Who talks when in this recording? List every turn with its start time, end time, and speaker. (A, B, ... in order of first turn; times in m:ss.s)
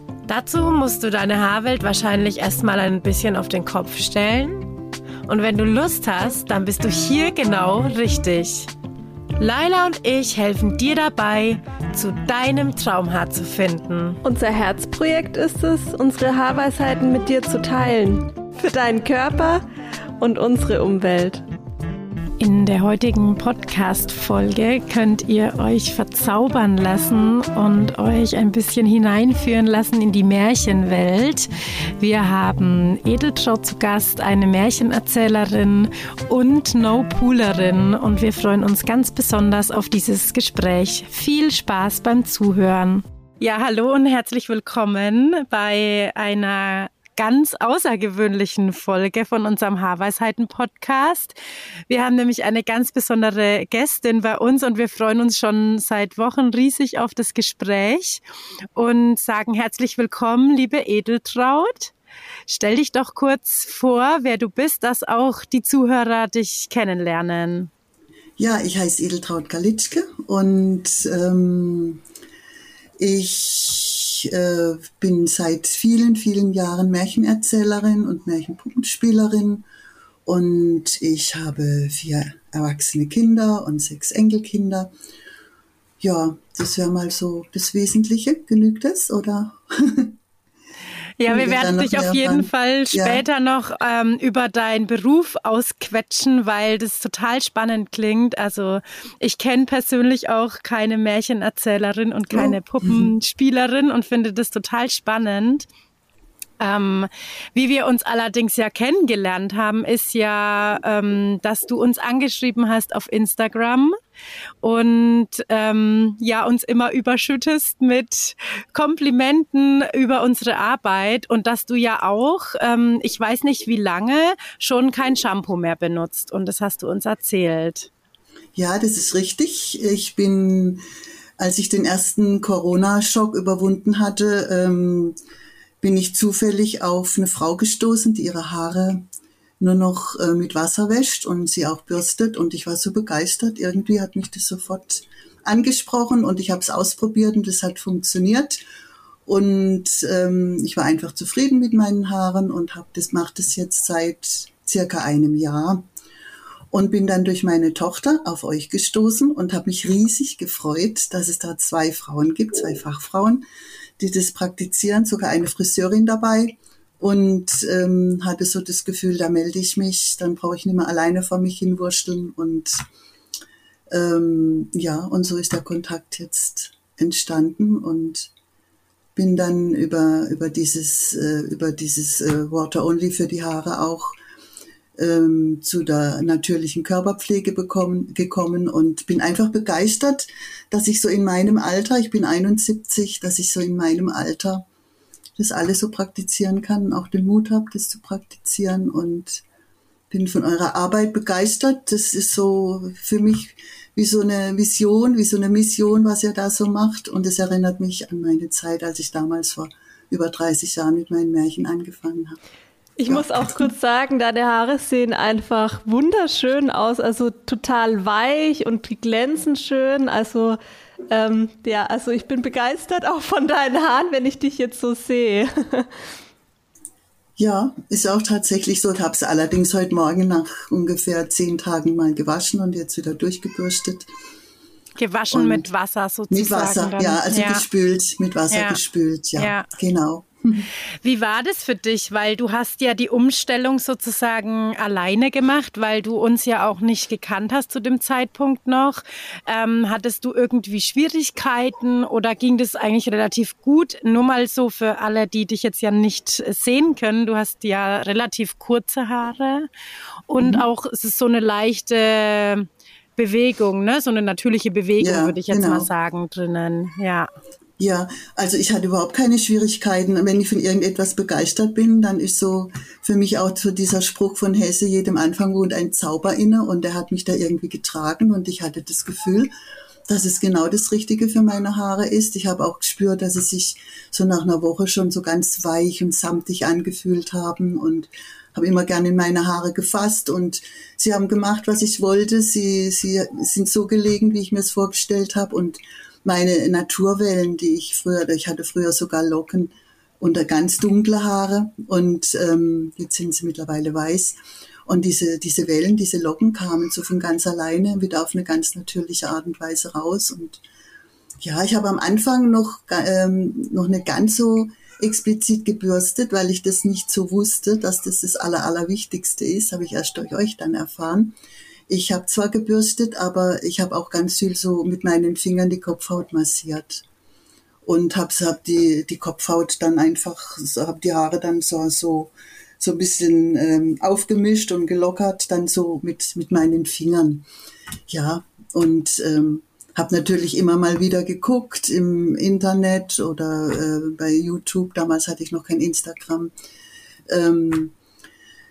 0:00.3-0:04.7 A
0:05.3-0:08.7 A
0:09.4-0:14.2 A
0:14.2-0:19.6 B
0:20.2-0:21.4 B
0:22.4-0:51.4 A
0:51.9-0:58.2 A
0:58.7-1:01.9 A
1:02.5-1:07.7 A
1:08.4-1:12.0 C
1:13.0-1:19.6 C
1:20.2-1:24.9 C
1:26.0-1:30.2 C
1:31.2-1:45.7 A
1:31.3-1:33.2 C
1:42.3-1:43.1 C
1:46.6-1:53.9 A
1:54.6-2:07.9 A
2:08.5-2:10.8 C
2:11.4-2:15.2 C
2:15.8-2:19.0 C
2:19.6-2:28.6 C
2:29.2-2:35.8 C
2:36.7-2:43.4 C
2:44.0-2:52.8 C
2:53.9-2:58.3 C
2:59.2-3:04.1 C
3:05.0-3:14.6 C
3:15.4-3:19.4 C
3:20.1-3:32.4 C
3:33.0-3:40.6 B
3:33.1-3:33.7 C
3:41.1-3:46.0 B
3:47.4-3:54.1 C
3:55.0-3:57.6 A
3:55.3-3:55.7 C
3:56.3-4:00.7 C
3:58.5-3:58.8 A
3:59.4-3:59.7 A
4:01.0-4:19.7 A
4:20.3-4:27.3 A
4:25.0-4:25.9 C
4:27.8-4:39.5 C
4:40.1-5:10.6 C
5:11.4-5:21.3 C
5:21.9-5:27.0 C
5:27.8-5:37.4 C
5:38.1-5:46.5 C
5:47.3-5:47.9 C